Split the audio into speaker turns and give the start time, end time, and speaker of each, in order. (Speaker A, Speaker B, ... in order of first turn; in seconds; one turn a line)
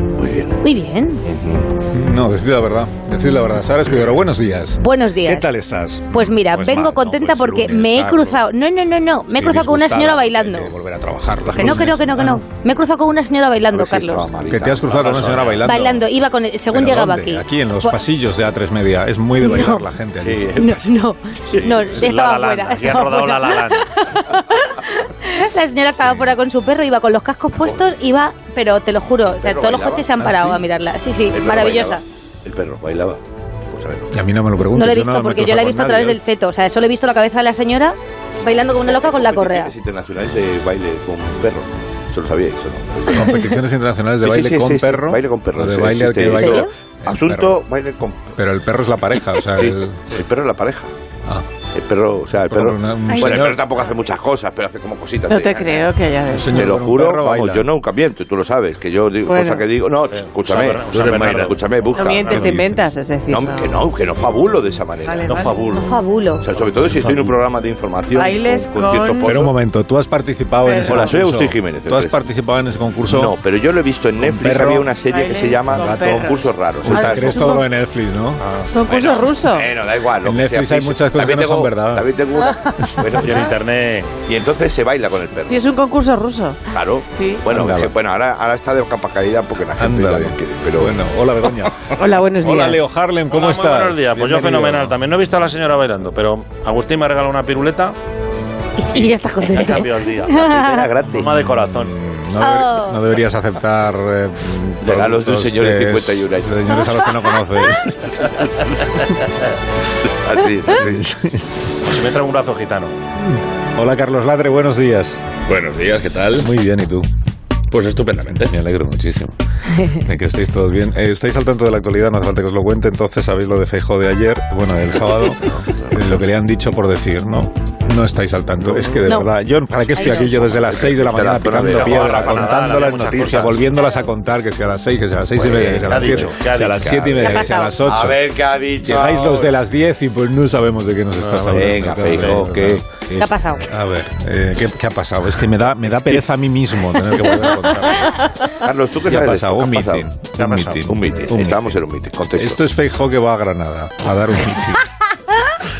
Speaker A: 0.2-0.6
Speaker B: 0.6-1.2
Speaker A: 1.2-1.7
Speaker C: 1.9-8.4
Speaker B: 4.8-5.5
Speaker B: 6.1-10.7
Speaker C: 9.3-12.4
Speaker A: 11.5-11.8
Speaker B: 11.5-14.3
Speaker A: 13.7-15.7
Speaker C: 14.4-16.1
Speaker B: 15.6-17.9
Speaker C: 16.7-20.5
Speaker B: 19.4-19.9
Speaker A: 20.2-20.9
Speaker B: 20.6-32.0
Speaker A: 21.5-22.0
Speaker D: 22.0-23.9
Speaker A: 27.6-27.9
Speaker A: 29.3-30.6
Speaker A: 31.3-34.1
Speaker C: 34.1-36.2
Speaker B: 34.7-39.7
Speaker A: 38.7-43.4
Speaker C: 43.1-47.6
Speaker A: 44.2-48.3
Speaker B: 46.4-46.7
Speaker C: 48.4-50.0
Speaker A: 49.6-50.9
Speaker A: 51.7-55.9
Speaker C: 52.4-53.6
Speaker B: 53.1-53.9
Speaker E: 55.3-56.8
Speaker C: 56.3-57.7
Speaker A: 56.5-62.5
Speaker E: 59.2-59.7
Speaker D: 60.1-62.4
Speaker F: 60.9-61.4
Speaker E: 62.0-63.8
Speaker C: 62.3-62.9
Speaker A: 63.3-65.7
Speaker E: 65.0-65.6
Speaker D: 65.3-65.9
Speaker B: 65.7-66.4
Speaker A: 66.4-69.5
Speaker C: 66.9-67.4
Speaker E: 68.2-69.4
Speaker C: 69.2-73.3
Speaker E: 70.6-71.1
Speaker A: 70.8-72.2
Speaker A: 73.1-77.5
Speaker C: 74.2-74.9
Speaker E: 75.1-77.7
Speaker C: 75.8-78.4
Speaker D: 78.4-78.7
Speaker E: 78.7-79.7
Speaker A: 78.9-83.5
Speaker C: 80.2-82.1
Speaker D: 83.2-84.2
Speaker A: 84.2-85.6
Speaker E: 85.5-87.5
Speaker A: 86.7-91.0
Speaker C: 87.5-88.0
Speaker C: 89.8-95.0
Speaker E: 91.9-92.8
Speaker D: 93.3-98.0
Speaker B: 98.8-100.9
Speaker D: 99.0-100.4
Speaker A: 100.4-101.5
Speaker D: 101.1-101.9
Speaker C: 101.2-108.2
Speaker B: 102.4-103.0
Speaker A: 104.8-107.0
Speaker A: 110.2-111.0
Speaker C: 110.7-111.4
Speaker D: 111.9-113.0
Speaker C: 113.2-115.2
Speaker F: 115.5-116.5
Speaker C: 116.4-117.1
Speaker F: 117.7-118.5
Speaker C: 118.3-119.3
Speaker B: 119.7-120.0
Speaker C: 120.0-148.3
Speaker A: 128.7-129.0
Speaker B: 130.0-130.4
Speaker A: 130.0-132.5
Speaker D: 131.6-133.6
Speaker A: 135.3-136.4
Speaker D: 135.8-137.2
Speaker B: 137.2-137.8
Speaker A: 137.9-139.5
Speaker D: 141.2-141.7
Speaker A: 141.5-142.8
Speaker B: 143.2-143.7
Speaker A: 145.9-146.3
Speaker A: 148.6-150.1
Speaker C: 149.1-151.8
Speaker D: 150.3-150.8
Speaker A: 150.8-152.6
Speaker C: 152.3-154.8